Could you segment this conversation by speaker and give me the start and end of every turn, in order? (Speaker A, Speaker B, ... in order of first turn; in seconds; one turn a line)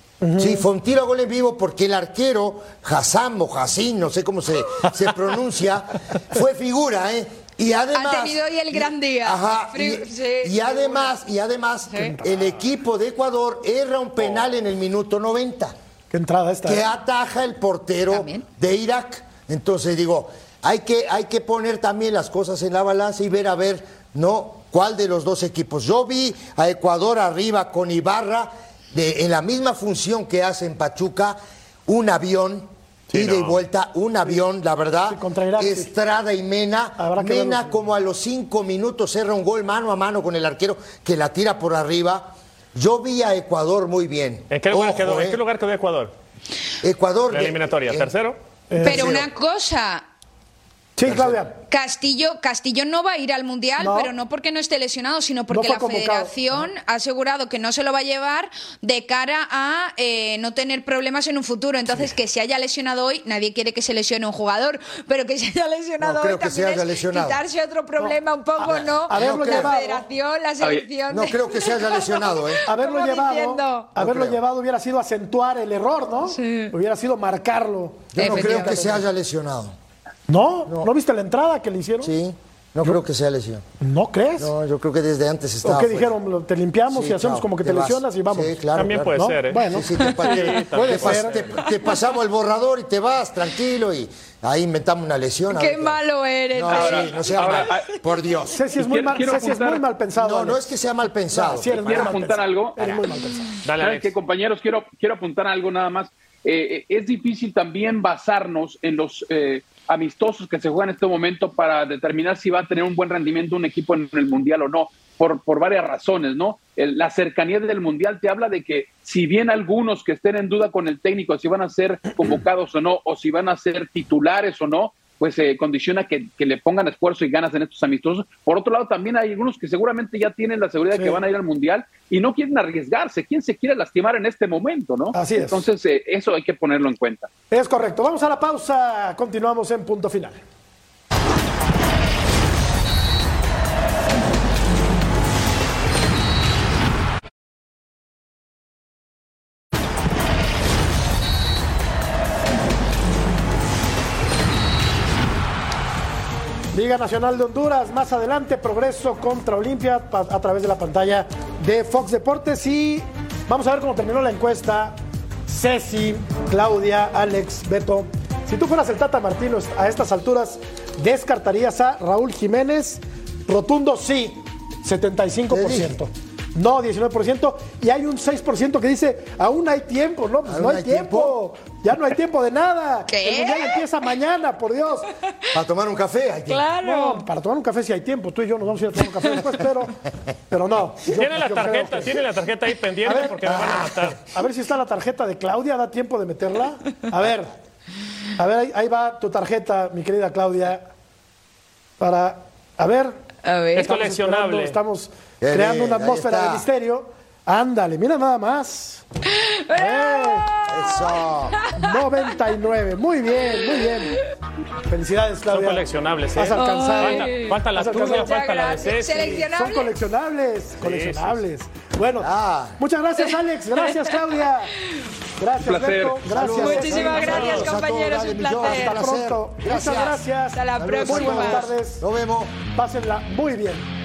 Speaker A: 0.2-0.7
Speaker B: 0.4-15.8
Speaker C: 7.9-11.2
Speaker C: 11.9-12.2
Speaker A: 16.1-16.9
Speaker B: 16.6-45.4
Speaker C: 18.1-18.4
Speaker D: 33.1-33.6
Speaker A: 35.1-35.9
Speaker A: 37.0-37.8
Speaker D: 44.5-46.1
Speaker B: 46.8-48.1
Speaker D: 47.3-48.4
Speaker A: 48.7-49.2
Speaker C: 48.8-50.1
Speaker B: 48.8-49.2
Speaker A: 51.0-51.5
Speaker B: 51.0-51.4
Speaker C: 51.7-73.9
Speaker A: 53.8-54.1
Speaker A: 55.5-56.7
Speaker B: 66.0-67.4
Speaker A: 68.0-70.1
Speaker B: 68.7-69.7
Speaker E: 70.6-70.9
Speaker B: 71.1-72.6
Speaker A: 72.7-79.0
Speaker B: 74.0-74.4
Speaker C: 76.3-76.7
Speaker B: 78.1-79.8
Speaker C: 78.2-79.0
Speaker A: 80.3-82.1
Speaker B: 82.0-83.6
Speaker A: 83.8-84.5
Speaker B: 84.4-86.2
Speaker A: 85.6-88.6
Speaker B: 86.9-96.0
Speaker D: 88.8-91.7
Speaker A: 89.1-89.9
Speaker A: 90.7-91.3
Speaker C: 95.5-98.0
Speaker B: 96.5-98.6
Speaker E: 96.7-97.9
Speaker A: 98.5-100.6
Speaker E: 98.8-99.9
Speaker B: 100.2-102.2
Speaker A: 101.3-103.6
Speaker E: 101.7-102.8
Speaker B: 102.8-103.1
Speaker D: 103.7-104.1
Speaker E: 103.8-137.3
Speaker A: 130.9-131.2
Speaker A: 135.1-135.6
Speaker A: 137.5-140.4
Speaker A: 156.7-185.1
Speaker B: 175.5-176.0
Speaker B: 180.5-181.4
Speaker C: 183.1-183.8
Speaker B: 185.5-186.7
Speaker C: 186.5-187.2
Speaker A: 186.8-190.0
Speaker A: 190.5-192.2
Speaker D: 191.1-194.2
Speaker A: 193.1-197.5
Speaker B: 193.5-194.2
Speaker A: 198.4-200.8
Speaker A: 202.0-203.2
Speaker C: 203.4-203.9
Speaker D: 203.8-204.8
Speaker A: 203.9-209.0
Speaker B: 205.4-206.7
Speaker C: 209.4-211.8
Speaker A: 209.8-210.5
Speaker B: 210.7-211.6
Speaker A: 211.8-214.2
Speaker A: 214.9-215.8
Speaker D: 215.5-219.5
Speaker A: 216.3-218.4
Speaker C: 216.6-219.9
Speaker A: 219.1-224.7
Speaker D: 220.8-221.4
Speaker B: 222.2-222.8
Speaker C: 223.8-224.2
Speaker A: 225.4-227.7
Speaker E: 225.6-226.3
Speaker B: 226.3-230.1
Speaker C: 226.5-229.1
Speaker D: 227.2-227.7
Speaker A: 228.6-232.0
Speaker C: 229.6-231.7
Speaker B: 230.8-232.5
Speaker A: 232.8-233.9